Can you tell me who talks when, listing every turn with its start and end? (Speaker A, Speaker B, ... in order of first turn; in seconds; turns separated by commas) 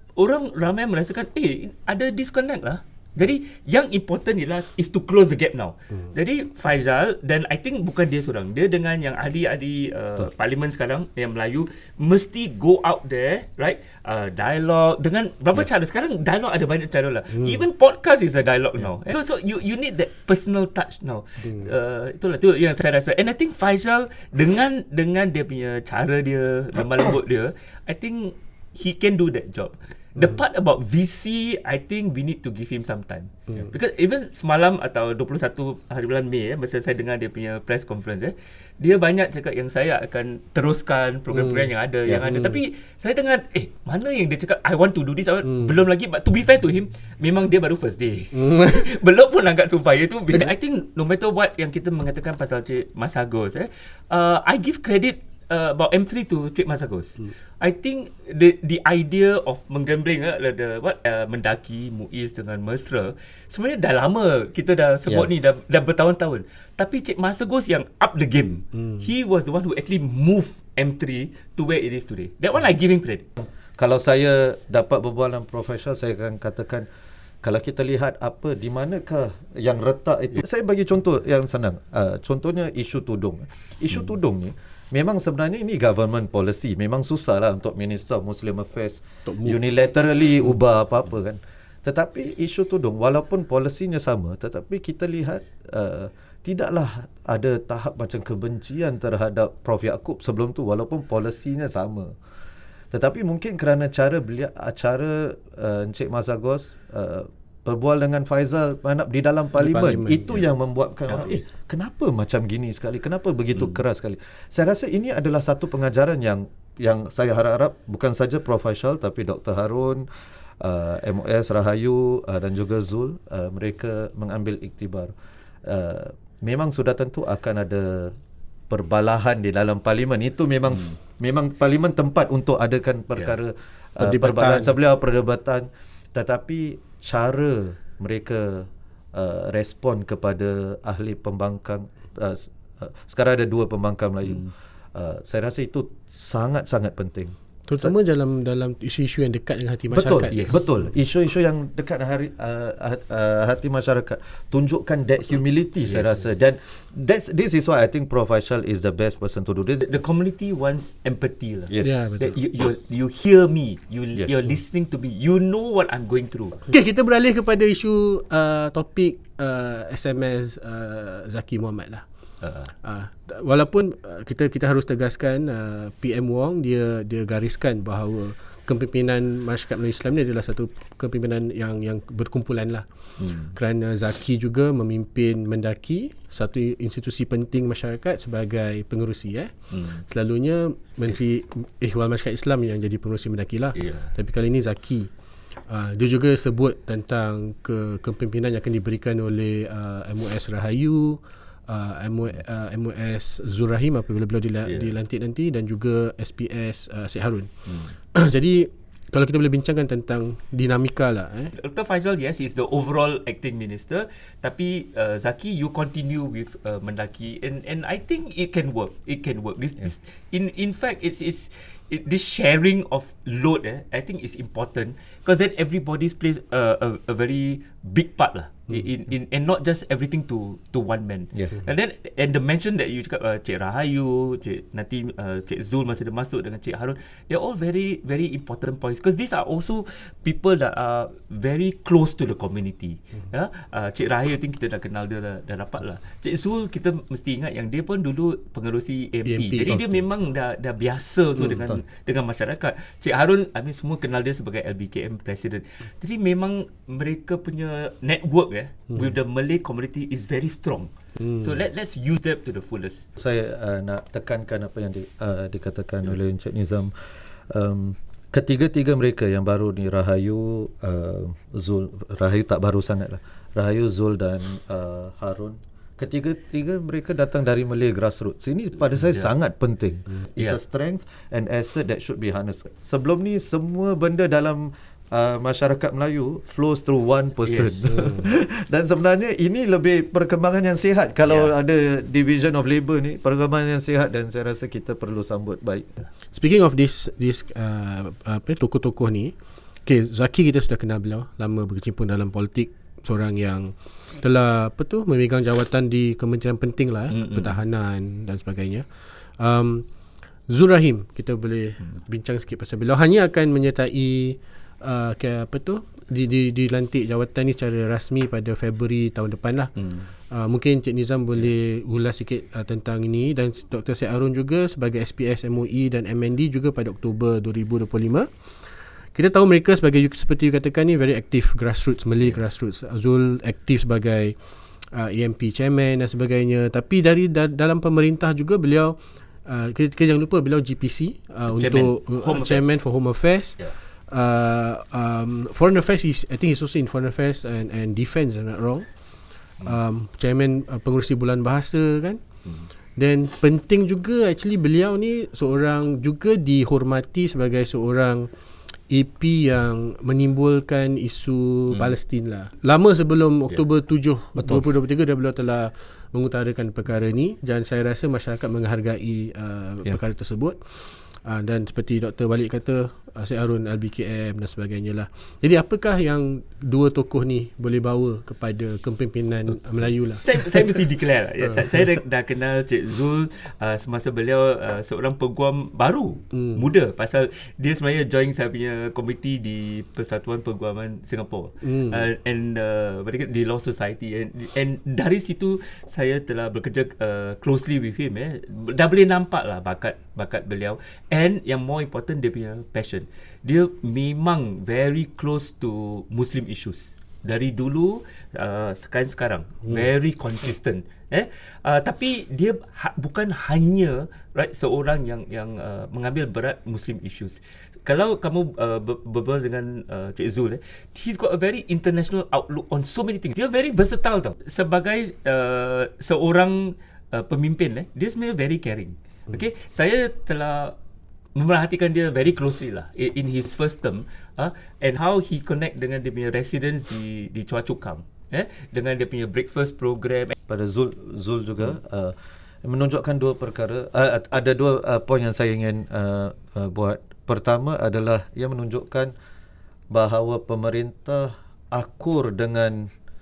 Speaker A: 0.2-73.3, Speaker B: 17.3-17.6, Speaker B: 42.2-42.6, Speaker B: 48.4-48.9, Speaker C: 73.4-76.9, Speaker C: 77.4-102.2, Speaker B: 89.3-89.6, Speaker C: 102.9-120.1, Speaker B: 109.6-110.4, Speaker A: 111.1-111.4, Speaker A: 113.6-113.8, Speaker C: 120.6-125.1, Speaker C: 125.7-128.2, Speaker C: 128.7-147.9, Speaker B: 134.0-134.7, Speaker B: 147.7-150.7, Speaker C: 149.9-160.0, Speaker A: 150.3-150.6, Speaker A: 155.9-156.2, Speaker A: 159.8-166.6, Speaker C: 161.7-162.8, Speaker B: 161.8-162.3, Speaker B: 166.7-172.1, Speaker A: 172.4-172.7, Speaker B: 172.8-182.8, Speaker A: 183.2-183.5, Speaker B: 183.5-189.5, Speaker A: 189.7-190.0, Speaker B: 190.1-195.1, Speaker A: 193.8-194.1, Speaker B: 195.7-207.5, Speaker A: 204.7-204.9, Speaker A: 207.7-207.9, Speaker B: 208.1-211.5, Speaker A: 211.6-263.1, Speaker B: 249.3-249.8, Speaker C: 249.7-250.0, Speaker C: 251.5-251.8, Speaker B: 261.2-261.5, Speaker C: 263.2-266.9, Speaker C: 267.5-295.9, Speaker A: 279.0-279.3, Speaker A: 287.4-287.9, Speaker B: 296.3-299.3, Speaker B: 299.9-309.9, Speaker A: 307.1-307.6, Speaker B: 310.5-319.7, Speaker A: 319.8-320.1, Speaker B: 320.3-328.3, Speaker B: 329.1-334.4, Speaker B: 334.9-348.9, Speaker A: 341.5-342.8, Speaker B: 349.6-352.2, Speaker B: 353.0-358.3, Speaker B: 358.9-380.2, Speaker C: 364.4-364.6, Speaker A: 380.2-430.8, Speaker B: 386.3-386.6, Speaker B: 391.6-392.0, Speaker A: 431.4-440.4, Speaker C: 440.5-449.1, Speaker C: 449.9-452.9